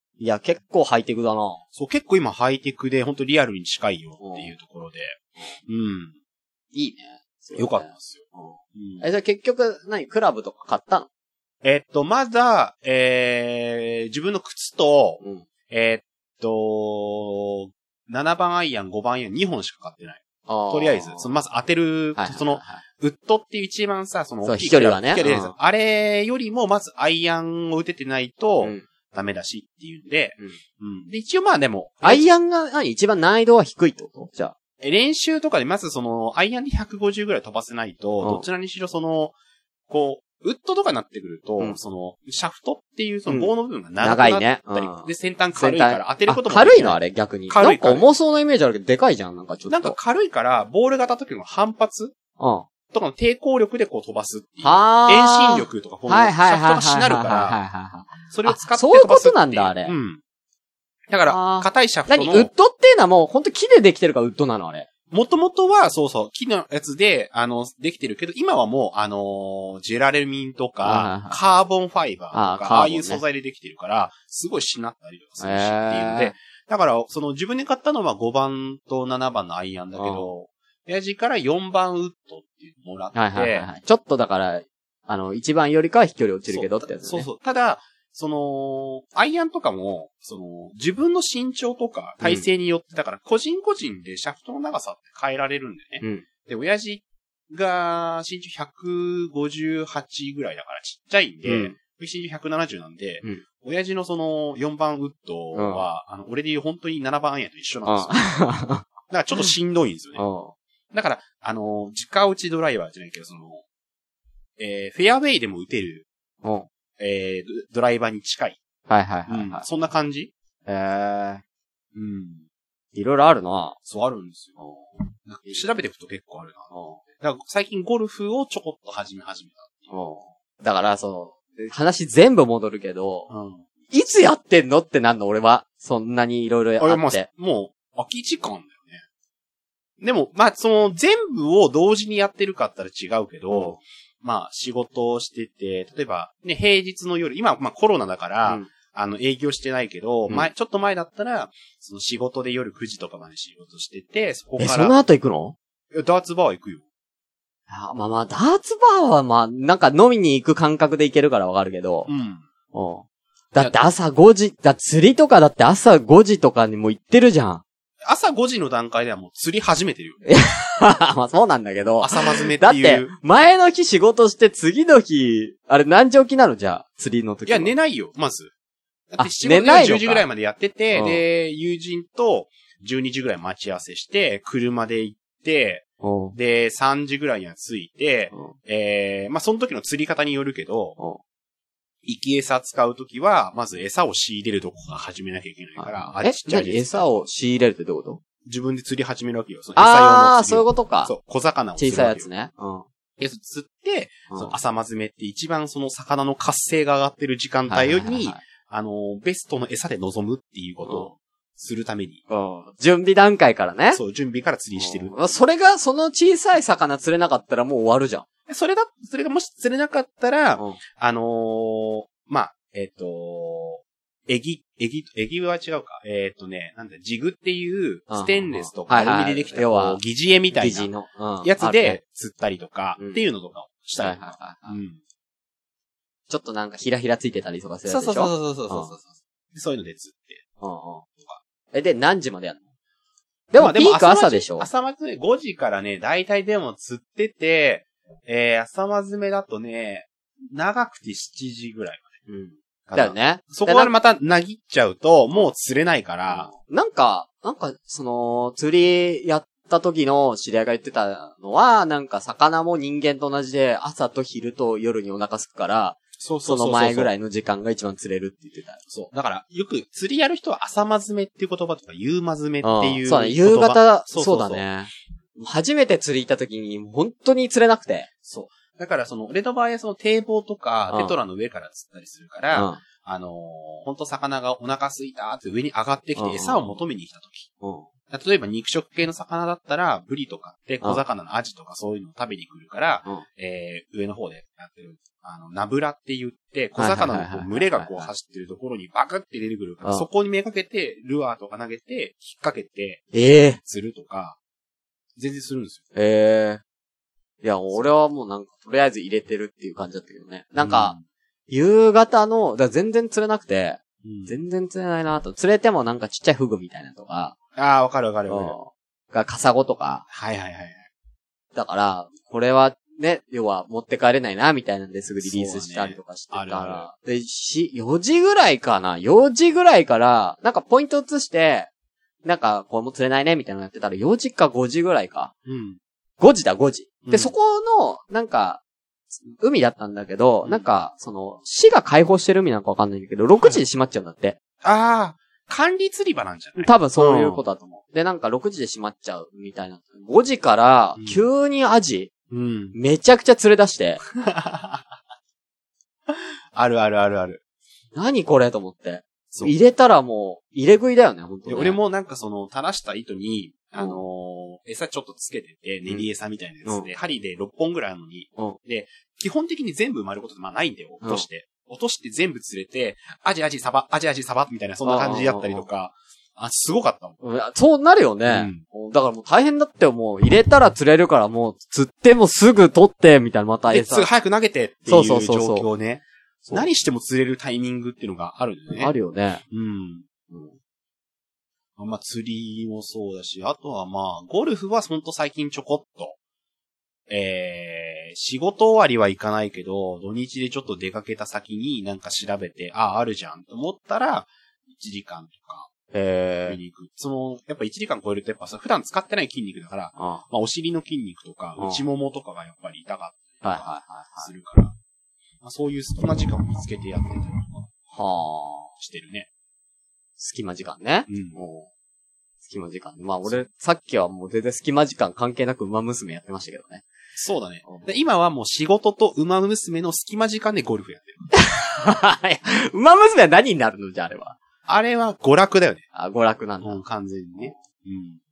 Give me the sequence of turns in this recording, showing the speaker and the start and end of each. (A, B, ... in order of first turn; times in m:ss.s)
0:00.2-0:01.6 A
0:01.8-0:06.1 B
0:04.2-0:04.5 A
0:06.7-0:11.1 A
0:07.6-0:08.2 B
0:08.8-0:09.0 B
0:11.6-0:32.3 B
0:15.2-0:15.5 A
0:20.5-0:21.3 A
0:22.2-0:22.8 A
0:24.4-0:25.5 A
0:32.0-0:34.6 A
0:34.8-0:39.4 B
0:39.9-0:48.1 B
0:43.3-0:50.0 A
0:49.7-0:52.2 B
0:52.4-0:52.7 A
0:52.9-0:57.6 B
0:54.6-0:59.9 A
0:58.3-1:00.2 B
1:01.1-1:02.5 B
1:01.3-1:04.9 A
1:05.1-1:23.7 B
1:10.8-1:11.4 A
1:12.3-1:13.2 A
1:15.4-1:16.3 A
1:20.0-1:20.3 A
1:23.1-1:27.3 A
1:26.5-1:48.3 B
1:41.4-1:41.8 A
1:45.6-1:45.9 A
1:47.9-1:48.8 A
1:49.1-1:50.2 B
1:50.2-1:50.5 A
1:50.9-1:53.6 B
1:54.6-1:56.1 B
1:57.0-1:58.6 B
1:58.9-1:59.6 A
1:59.3-2:00.3 B
2:00.7-2:01.4 A
2:02.0-2:02.4 B
2:02.9-2:03.8 A
2:03.9-2:04.6 B
2:05.3-2:10.0 B
2:06.7-2:07.0 A
2:09.9-2:13.3 A
2:13.3-2:13.6 B
2:13.9-2:17.3 A
2:16.8-2:19.0 B
2:20.0-2:35.0 B
2:23.5-2:23.8 A
2:34.6-2:35.6 A
2:35.9-2:36.8 B
2:37.7-2:42.1 A
2:42.1-2:42.5 B
2:42.7-2:47.6 A
2:43.6-2:43.8 B
2:48.1-2:50.3 B
2:50.3-2:57.7 A
2:52.0-2:53.1 B
2:57.5-2:58.5 B
2:59.1-3:11.0 B
2:59.2-3:00.3 A
3:00.9-3:01.2 A
3:06.0-3:06.4 A
3:12.0-3:17.2 B
3:15.8-3:18.2 A
3:18.5-3:22.3 B
3:19.8-3:21.1 A
3:21.8-3:22.8 A
3:23.2-3:32.2 B
3:24.3-3:24.6 A
3:27.7-3:28.4 A
3:30.8-3:31.1 A
3:32.3-3:34.0 A
3:33.9-3:35.1 B
3:34.8-3:38.2 A
3:38.5-3:50.9 B
3:48.1-3:50.0 A
3:50.5-3:52.0 A
3:51.4-3:55.0 B
3:54.0-3:54.8 A
3:56.3-3:59.0 A
3:57.9-4:00.4 B
4:00.6-4:01.0 A
4:01.7-4:02.6 A
4:03.5-4:04.7 A
4:03.6-4:12.1 B
4:12.3-4:13.9 A
4:12.9-4:16.5 B
4:16.3-4:28.8 A
4:26.2-4:27.1 B
4:28.9-4:34.7 B
4:32.6-4:38.1 A
4:38.3-4:47.5 B
4:40.9-4:41.2 A
4:42.5-4:42.8 A
4:46.2-4:46.7 A
4:47.6-4:47.9 A
4:48.1-5:04.4 B
4:56.8-4:58.1 A
5:03.1-5:03.6 A
5:05.2-5:05.8 B
5:06.0-5:06.6 A
5:07.4-5:11.0 A
5:10.6-5:11.0 B
5:11.5-5:17.4 A
5:14.0-5:14.4 B
5:17.6-5:18.6 B
5:18.3-5:20.0 A
5:20.1-5:20.9 B
5:21.6-5:31.7 A
5:25.2-5:26.9 B
5:32.2-5:35.3 A
5:35.5-5:35.8 B
5:36.2-5:38.6 A
5:37.1-5:37.3 B
5:39.2-5:44.4 A
5:40.4-5:40.7 B
5:44.6-5:47.4 B
5:46.6-5:52.1 A
5:51.0-5:51.2 B
5:52.3-5:52.8 B
5:52.7-5:54.0 A
5:54.2-5:54.8 B
5:56.1-5:57.4 B
5:58.0-6:01.8 A
5:59.3-5:59.6 B
6:01.5-6:17.2 B
6:03.8-6:04.0 A
6:14.8-6:15.7 A
6:17.2-6:24.1 A
6:18.3-6:18.6 B
6:23.7-6:28.9 B
6:24.9-6:25.7 A
6:28.7-6:29.4 A
6:29.5-6:30.3 B
6:31.8-6:36.2 B
6:37.1-6:45.7 B
6:45.9-6:46.6 A
6:46.5-6:54.8 B
6:50.0-6:50.2 A
6:53.4-6:54.3 A
6:55.4-6:57.7 B
6:57.9-6:58.7 A
6:58.8-6:59.3 B
7:00.2-7:01.7 A
7:01.1-7:01.4 B
7:02.4-7:06.8 A
7:07.2-7:11.3 B
7:11.3-7:14.4 A
7:14.7-7:15.8 B
7:16.0-7:16.8 A
7:16.6-7:18.2 B